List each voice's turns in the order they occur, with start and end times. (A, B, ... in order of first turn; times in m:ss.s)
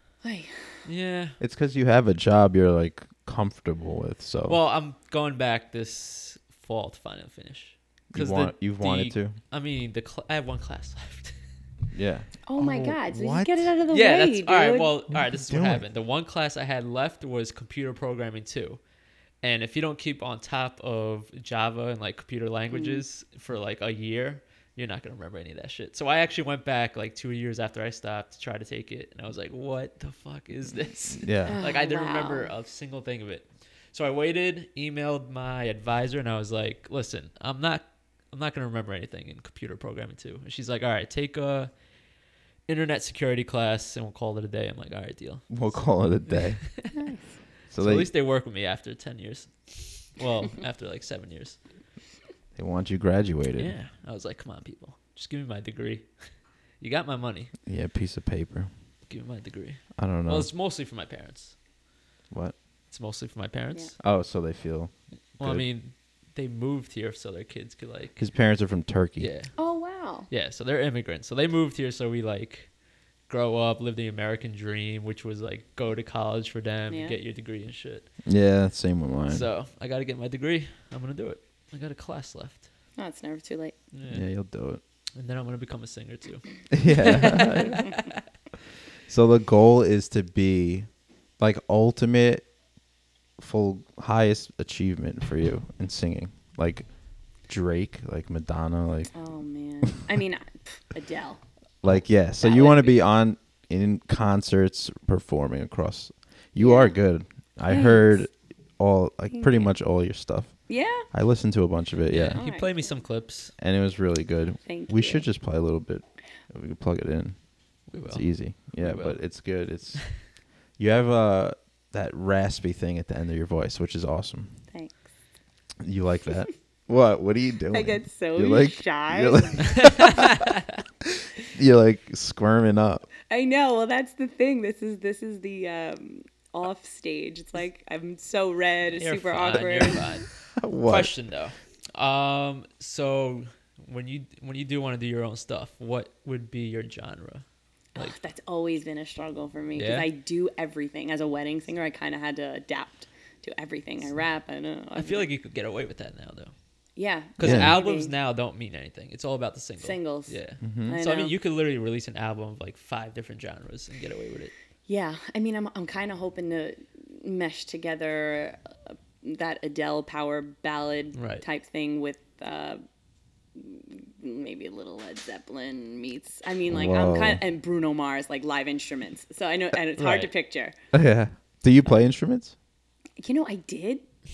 0:00.2-0:00.8 A
0:00.8-0:01.4 B
0:01.4-0:04.6 C
0:04.5-0:11.4 B
0:08.1-0:09.4 C
0:11.9-0:13.7 C
0:12.5-0:14.9 A
0:13.9-0:18.8 B
0:15.1-0:15.8 C
0:19.4-0:41.7 B
0:22.7-0:23.0 A
0:31.1-0:31.6 C
0:31.5-0:32.5 A
0:42.7-0:47.0 B
0:45.5-0:46.6 C
0:46.9-0:47.3 A
0:47.7-0:48.1 C
0:47.8-0:51.6 B
0:52.6-0:53.8 C
0:53.6-0:56.1 B
0:56.8-0:57.5 B
0:57.7-0:58.7 C
0:59.1-1:01.6 B
1:00.0-1:00.5 C
1:02.3-1:02.6 C
1:02.9-1:03.9 B
1:04.0-1:05.6 C
1:05.4-1:08.2 B
1:08.2-1:09.3 C
1:09.2-1:09.5 B
1:09.6-1:10.3 A
1:10.3-1:12.7 B
1:13.3-1:18.1 B
1:16.9-1:17.2 A
1:18.2-1:19.5 C
1:19.3-1:22.7 B
1:23.0-1:23.8 A
1:23.9-1:24.3 B
1:24.1-1:24.8 C
1:25.2-1:28.2 B
1:26.7-1:27.9 C
1:29.1-1:30.9 C
1:31.4-1:32.5 C
1:33.4-1:36.9 C
1:37.5-1:39.1 C
1:39.1-1:41.4 A
1:41.8-1:50.5 C
1:42.4-1:43.0 A
1:46.6-1:47.0 A
1:47.7-1:48.2 A
1:49.3-1:49.7 A
1:50.7-1:51.1 A
1:51.1-1:52.4 C
1:52.1-1:53.5 B
1:52.4-1:53.0 A
1:53.6-1:57.4 C
1:54.7-1:55.2 A
1:57.9-1:59.2 B
1:58.1-2:00.0 C
2:00.8-2:04.5 C
2:05.8-2:10.3 C
2:07.7-2:10.0 A
2:09.7-2:10.6 B
2:11.1-2:13.1 C
2:13.3-2:20.1 A
2:19.0-2:20.3 B
2:20.6-2:21.1 C
2:20.9-2:27.4 B
2:28.0-2:35.3 A
2:29.8-2:30.1 B
2:35.0-2:36.5 B
2:37.0-2:38.1 A
2:37.4-2:44.5 B
2:37.4-2:37.8 C
2:39.8-2:41.3 A
2:40.6-2:41.0 C
2:44.9-2:48.6 A
2:49.2-2:52.8 A
2:51.2-2:51.4 B
2:53.6-3:00.7 A
2:56.7-2:57.4 C
3:00.0-3:00.3 B
3:00.9-3:02.6 C
3:03.2-3:04.0 A